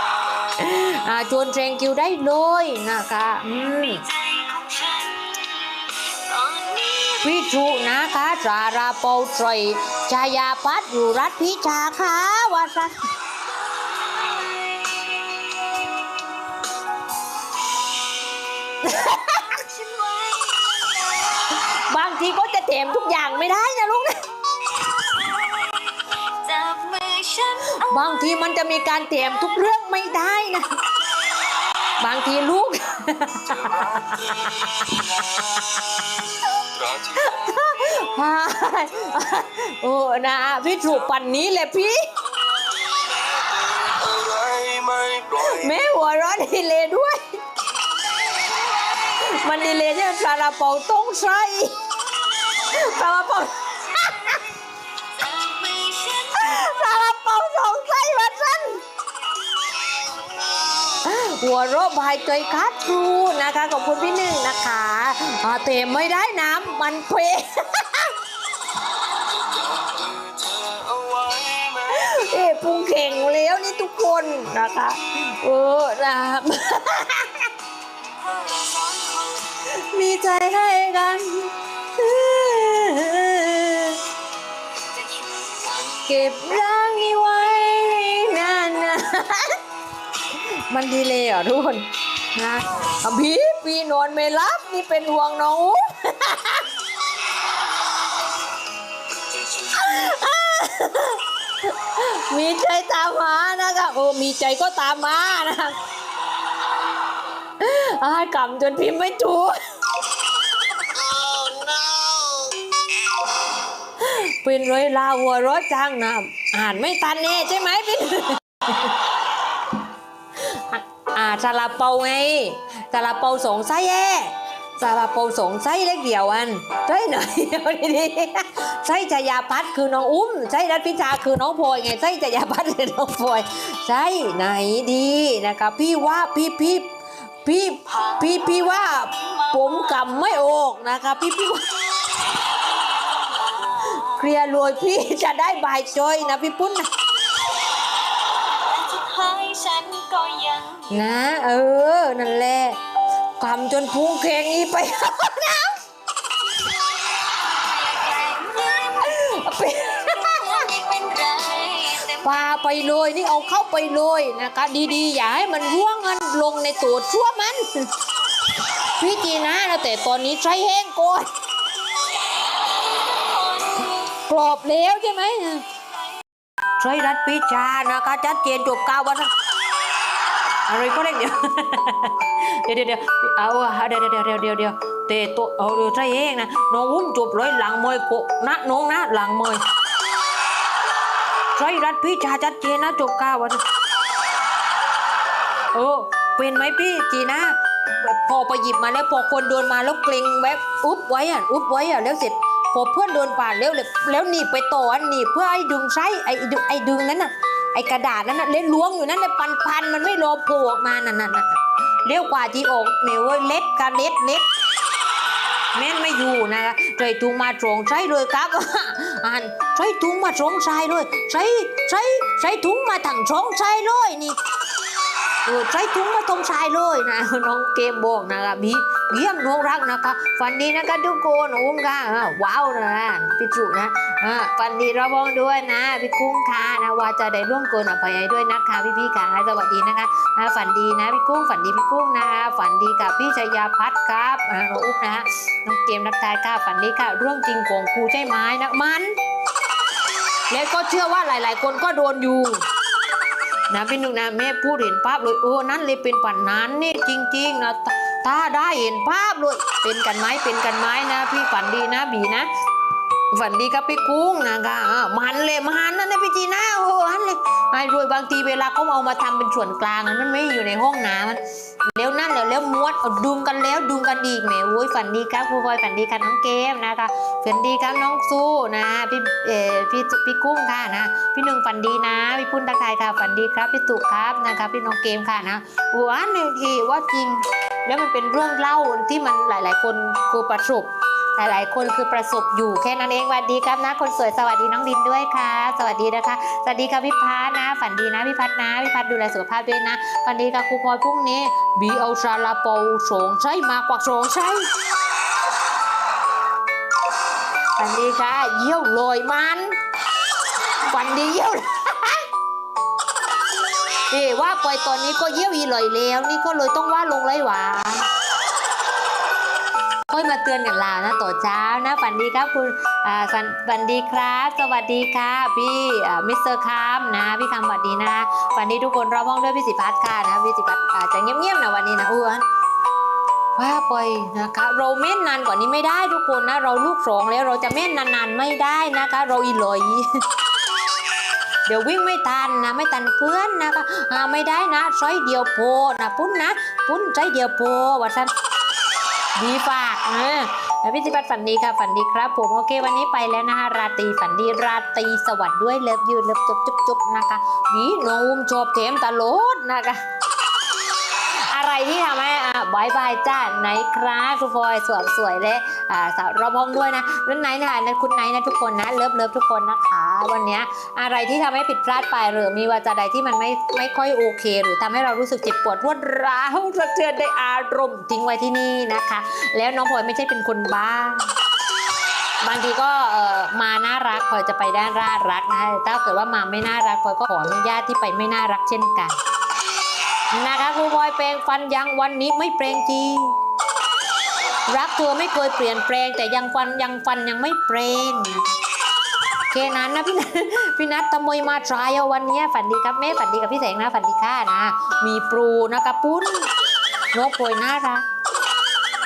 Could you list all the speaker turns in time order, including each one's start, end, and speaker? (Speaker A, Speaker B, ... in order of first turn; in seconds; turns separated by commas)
Speaker A: 0.6-4.1, Speaker B: 4.0-7.3, Speaker A: 7.2-12.9, Speaker B: 14.3-15.9, Speaker B: 18.7-21.6, Speaker A: 18.8-19.6, Speaker A: 21.6-24.2, Speaker B: 25.0-27.9, Speaker A: 27.7-30.7, Speaker A: 32.0-35.2, Speaker A: 36.8-42.2, Speaker C: 43.5-45.3, Speaker A: 45.3-47.4, Speaker A: 49.0-51.8, Speaker A: 52.5-54.4, Speaker B: 55.1-56.5, Speaker A: 56.3-58.8, Speaker A: 60.9-68.2, Speaker C: 70.2-71.6, Speaker A: 71.7-77.5, Speaker B: 78.2-79.5, Speaker A: 79.6-84.0, Speaker A: 86.0-89.6, Speaker A: 90.3-96.7, Speaker A: 99.3-105.8, Speaker A: 107.6-109.6, Speaker A: 111.1-112.5, Speaker A: 114.0-119.0, Speaker A: 120.4-141.9, Speaker B: 142.2-144.1, Speaker A: 143.8-146.9, Speaker B: 148.5-150.9, Speaker A: 150.9-152.8, Speaker A: 153.4-155.8, Speaker B: 156.5-159.2, Speaker A: 158.9-160.7, Speaker B: 160.2-162.2, Speaker A: 162.1-167.9, Speaker A: 169.0-171.3, Speaker A: 173.9-175.7, Speaker A: 176.8-179.3, Speaker A: 180.7-189.7, Speaker A: 191.6-193.6, Speaker A: 195.7-214.5, Speaker A: 215.7-224.4, Speaker A: 225.5-249.1, Speaker A: 250.5-252.7, Speaker A: 253.7-262.5, Speaker A: 263.3-304.7, Speaker A: 307.8-309.8, Speaker A: 310.9-312.3, Speaker A: 314.1-318.1, Speaker A: 320.1-332.4, Speaker A: 333.6-340.1, Speaker A: 341.7-348.3, Speaker A: 349.4-360.0, Speaker A: 361.2-381.3, Speaker A: 382.4-389.2, Speaker A: 390.3-393.4, Speaker A: 394.7-398.5, Speaker A: 399.5-406.5, Speaker A: 407.1-408.1